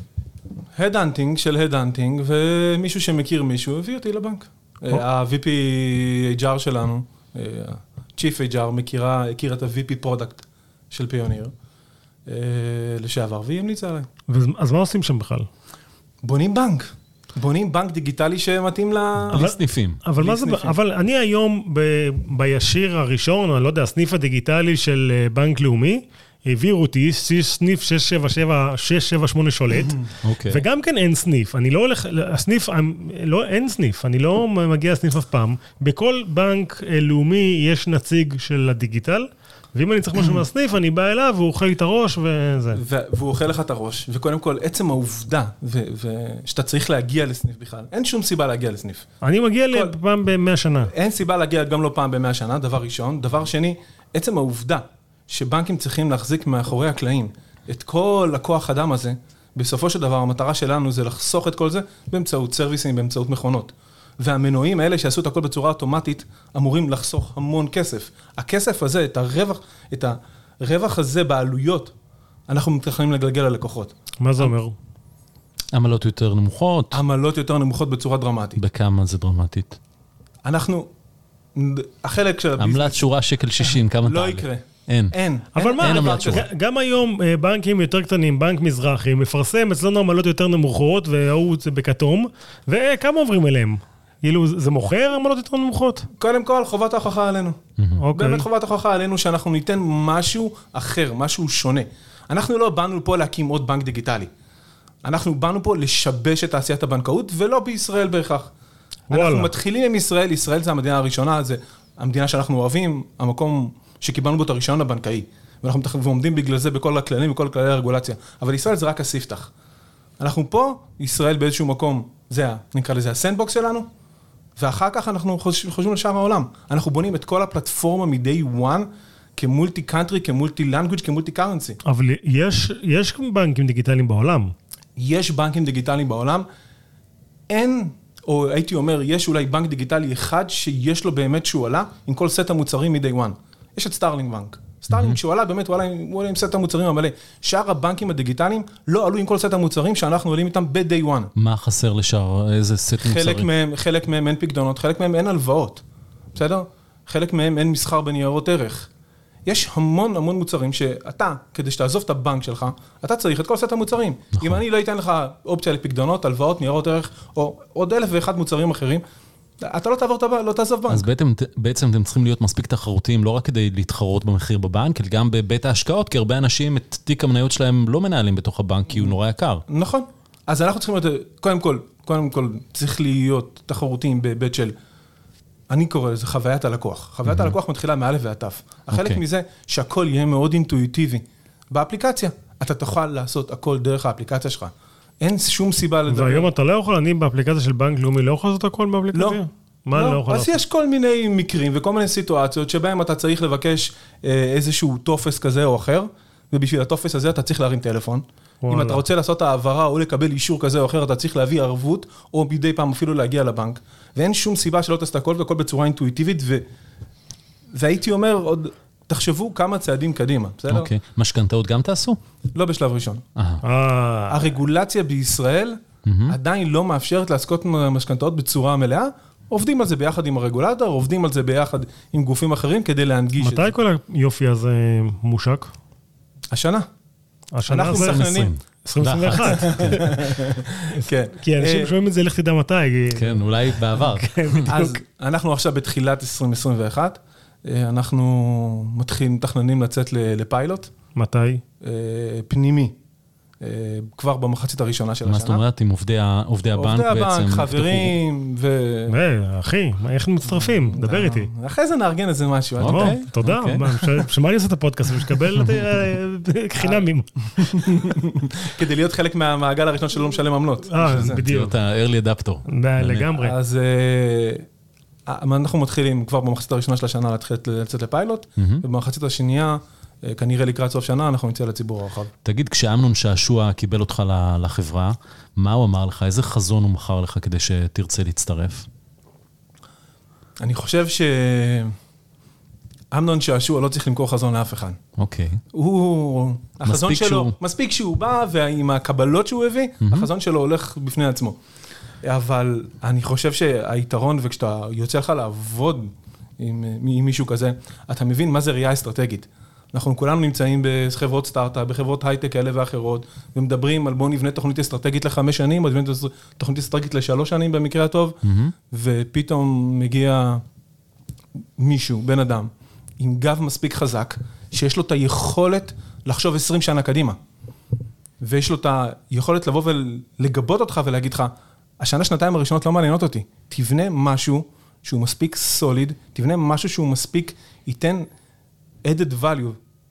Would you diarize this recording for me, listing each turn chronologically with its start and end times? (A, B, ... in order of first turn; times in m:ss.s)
0:00.8-0:11.5 A
0:12.3-0:14.1 A
0:14.3-0:15.5 B
0:16.2-0:19.4 A
0:19.3-0:20.0 C
0:19.3-0:42.8 B
0:20.2-0:20.8 A
0:30.2-0:30.6 C
0:42.7-0:49.1 A
0:49.2-0:50.9 B
0:50.9-1:11.9 A
1:12.5-1:14.5 A
1:14.2-1:14.8 B
1:15.7-1:17.0 C
1:16.9-1:18.6 A
1:18.6-1:19.8 C
1:20.4-1:20.9 A
1:21.6-1:23.1 A
1:22.6-1:25.2 C
1:23.6-1:26.4 A
1:25.6-1:36.1 B
1:25.8-1:26.4 C
1:36.1-1:37.6 A
1:37.8-1:38.0 C
1:38.0-1:38.5 B
1:38.1-1:44.3 A
1:45.0-1:48.5 A
1:49.1-1:49.5 B
1:49.1-1:59.5 A
2:00.2-2:03.9 A
2:04.6-2:11.8 A
2:11.8-2:14.5 B
2:15.0-2:16.5 A
2:17.5-2:31.3 A
2:24.9-2:25.2 C
2:31.4-2:33.5 C
2:33.0-2:35.8 A
2:36.3-2:38.9 A
2:39.5-2:49.0 A
2:44.4-2:44.6 C
2:49.6-2:51.1 A
2:50.9-2:59.6 C
2:59.7-3:04.8 A
3:05.7-3:16.5 A
3:07.3-3:07.6 C
3:08.9-3:09.2 C
3:16.1-3:20.6 B
3:19.1-3:19.4 A
3:19.9-3:36.7 A
3:28.6-3:29.0 B
3:37.8-3:40.9 A
3:40.7-3:42.2 C
3:42.5-3:43.2 A
3:43.4-3:43.6 C
3:43.6-3:44.4 B
3:44.3-3:53.7 A
3:46.0-3:46.4 C
3:53.4-3:55.7 B
3:56.5-3:56.9 A
3:57.6-3:58.2 B
3:57.7-3:58.5 A
3:57.9-4:00.1 C
3:58.8-4:00.3 B
3:59.4-4:01.9 A
4:00.9-4:05.0 B
4:03.1-4:04.7 C
4:04.7-4:10.9 A
4:11.2-4:11.6 B
4:11.8-4:13.0 A
4:13.6-4:15.6 A
4:15.2-4:18.2 C
4:16.8-4:19.1 A
4:19.1-4:21.5 B
4:20.5-4:23.2 A
4:22.8-4:24.1 C
4:22.9-4:28.1 B
4:26.8-4:31.4 A
4:30.9-4:31.7 B
4:31.1-4:33.3 C
4:32.7-4:33.6 B
4:33.3-4:34.7 A
4:35.3-4:42.3 A
4:38.6-4:38.8 C
4:42.4-4:48.9 C
4:50.6-4:52.0 A
4:53.1-4:55.0 A
4:55.2-4:55.6 C
4:55.7-5:01.6 A
4:56.8-4:57.6 C
5:00.0-5:00.3 C
5:02.2-5:18.4 A
5:18.4-5:18.7 C
5:18.9-5:20.6 A
5:21.8-5:27.4 A
5:28.4-5:38.3 A
5:39.0-5:39.8 A